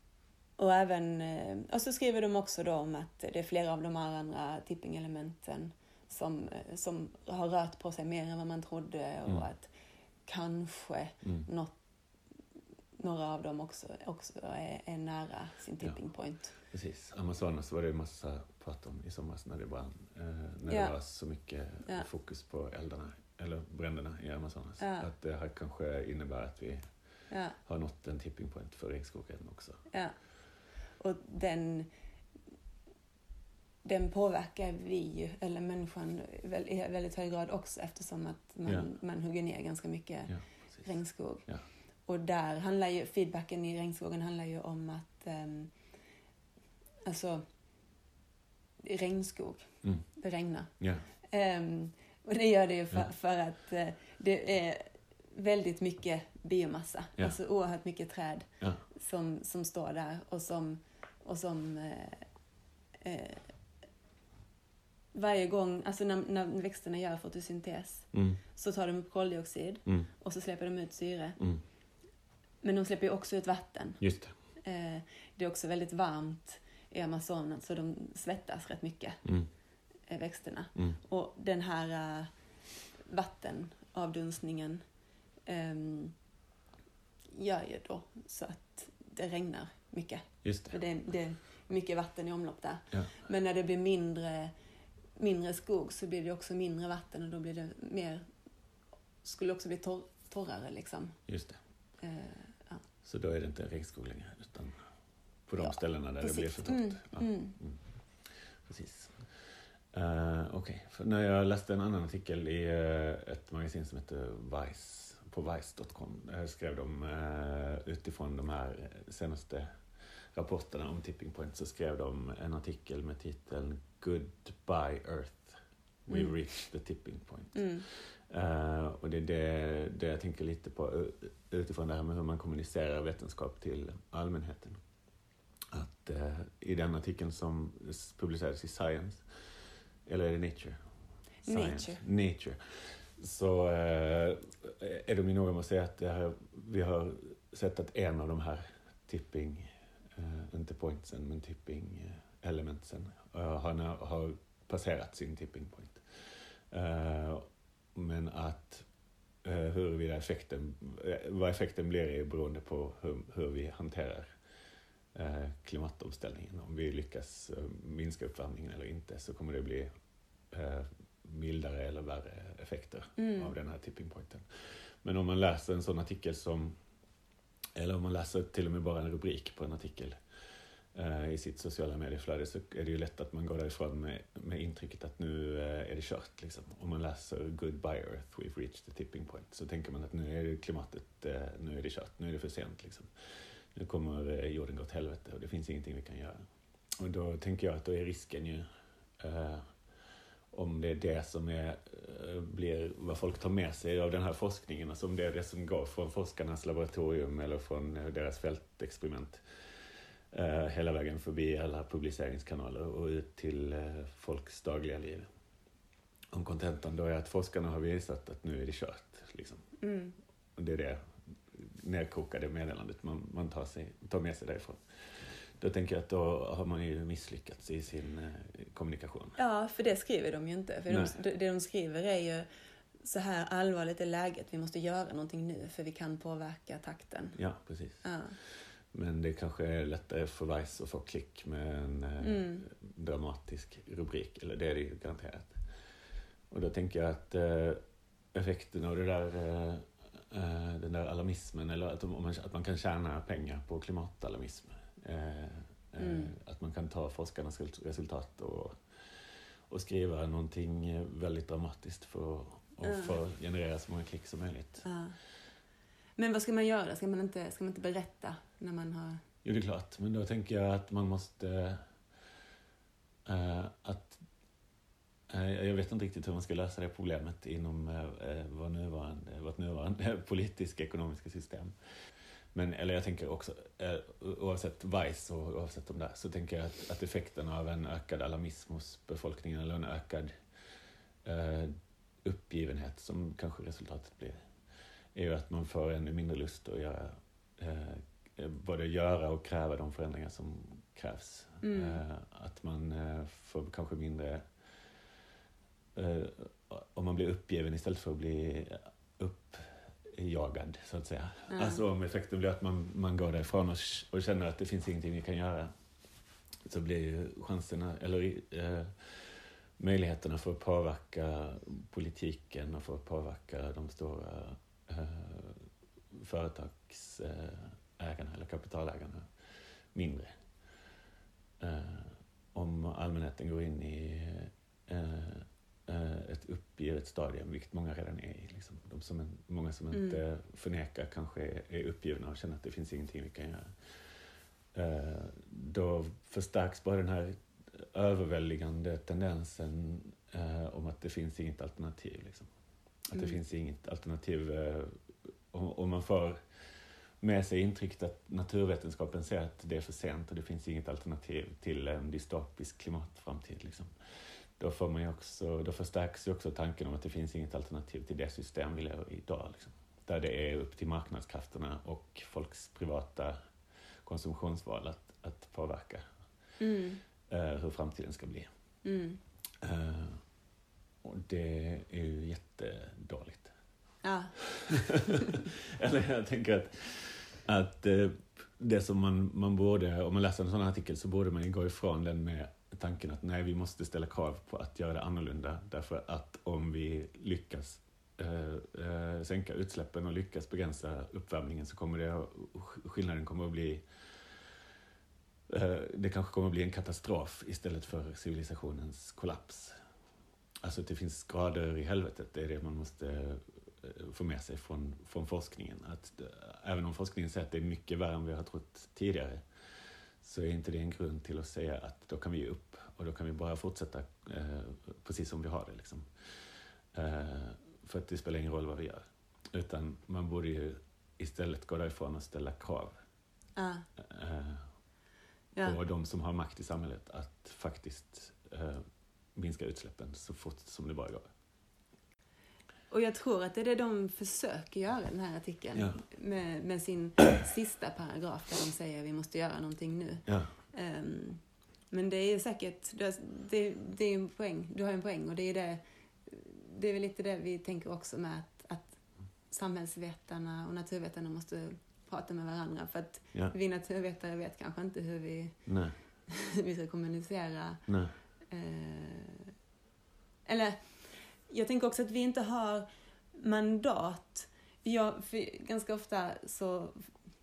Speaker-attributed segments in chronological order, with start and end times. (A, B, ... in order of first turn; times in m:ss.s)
0:00.6-0:09.7 A
0:10.2-0:11.7 A
0:11.2-0:11.5 B
0:13.0-0:16.6 A
0:16.7-0:26.8 B
0:20.7-0:20.9 A
0:24.8-0:25.1 A
0:27.3-0:27.6 A
0:27.6-0:29.8 B
0:31.0-0:31.9 A
0:33.8-0:41.5 A
0:40.3-0:40.8 B
0:42.0-0:45.7 A
0:47.0-0:47.4 A
0:48.8-0:50.7 A
0:50.8-0:51.0 B
0:51.2-1:02.3 A
1:03.0-1:03.5 A
1:05.1-1:11.4 A
1:08.1-1:08.4 B
1:12.6-1:14.0 A
1:14.0-1:14.3 B
1:14.6-1:19.2 A
1:20.1-1:22.3 A
1:23.0-1:24.8 A
1:25.4-1:26.1 A
1:27.3-1:34.5 A
1:30.4-1:30.8 B
1:35.2-1:38.2 A
1:39.2-1:41.2 A
1:41.3-1:41.6 B
1:42.0-1:42.8 A
1:43.0-1:44.8 B
1:45.5-1:47.8 B
1:45.6-1:47.6 A
1:48.6-1:49.2 B
1:49.9-1:59.7 B
2:00.3-2:14.8 B
2:06.1-2:06.4 A
2:07.5-2:07.8 A
2:15.7-2:19.2 B
2:20.0-2:20.8 B
2:21.4-2:22.0 A
2:21.4-2:22.6 B
2:23.2-2:36.0 B
2:36.7-2:38.8 B
2:39.4-2:44.2 B
2:45.1-2:49.9 B
2:50.5-2:54.4 B
2:53.2-2:53.5 A
2:55.0-2:56.7 B
2:57.8-3:00.2 B
3:00.9-3:13.1 B
3:13.7-3:16.4 B
3:17.0-3:18.6 B
3:19.2-3:19.6 B
3:20.5-3:29.4 B
3:30.3-3:35.3 B
3:36.3-3:39.6 B
3:39.8-3:40.2 A
3:40.6-3:41.0 B
3:41.5-3:49.4 B
3:49.4-3:52.4 A
3:50.9-3:51.2 B
3:53.0-3:57.4 A
3:57.4-3:58.0 B
3:58.0-3:58.4 A
3:58.9-4:05.6 B
4:02.2-4:02.6 A
4:06.5-4:07.8 B
4:08.3-4:18.7 B
4:16.0-4:16.3 A
4:19.7-4:24.8 B
4:22.8-4:23.2 A
4:24.8-4:25.2 A
4:26.2-4:29.2 A
4:29.4-4:31.8 B
4:33.2-4:34.2 B
4:35.3-4:41.7 B
4:42.5-4:50.3 B
4:51.2-4:51.7 B
4:52.2-4:54.4 B
4:55.1-5:04.4 B
5:01.6-5:02.0 A
5:06.0-5:15.7 B
5:11.5-5:11.8 A
5:16.6-5:29.2 B
5:29.9-5:30.3 B
5:31.6-5:43.7 B
5:39.9-5:40.2 A
5:44.7-5:52.5 B
5:53.1-5:55.0 B
5:55.5-5:56.4 B
5:57.2-6:03.9 B
6:04.6-6:13.3 B
6:14.0-6:16.0 B
6:16.6-6:17.0 A
6:17.3-6:18.5 B
6:18.8-6:19.2 A
6:19.6-6:20.2 B
6:21.0-6:23.5 B
6:24.0-6:24.4 A
6:24.6-6:43.8 B
6:45.5-6:49.8 B
6:50.6-6:59.4 B
7:00.2-7:06.0 B
7:06.9-7:12.9 B
7:13.6-7:13.8 A
7:14.0-7:14.6 B
7:15.6-7:18.8 B
7:19.4-7:21.3 B
7:22.9-7:39.0 A
7:25.7-7:26.0 B
7:30.3-7:30.5 B
7:39.5-7:45.6 A
7:45.6-7:46.0 B
7:46.3-7:47.8 A
7:47.9-7:48.1 B
7:48.5-7:49.5 A
7:50.4-7:50.8 A
7:51.5-7:57.1 A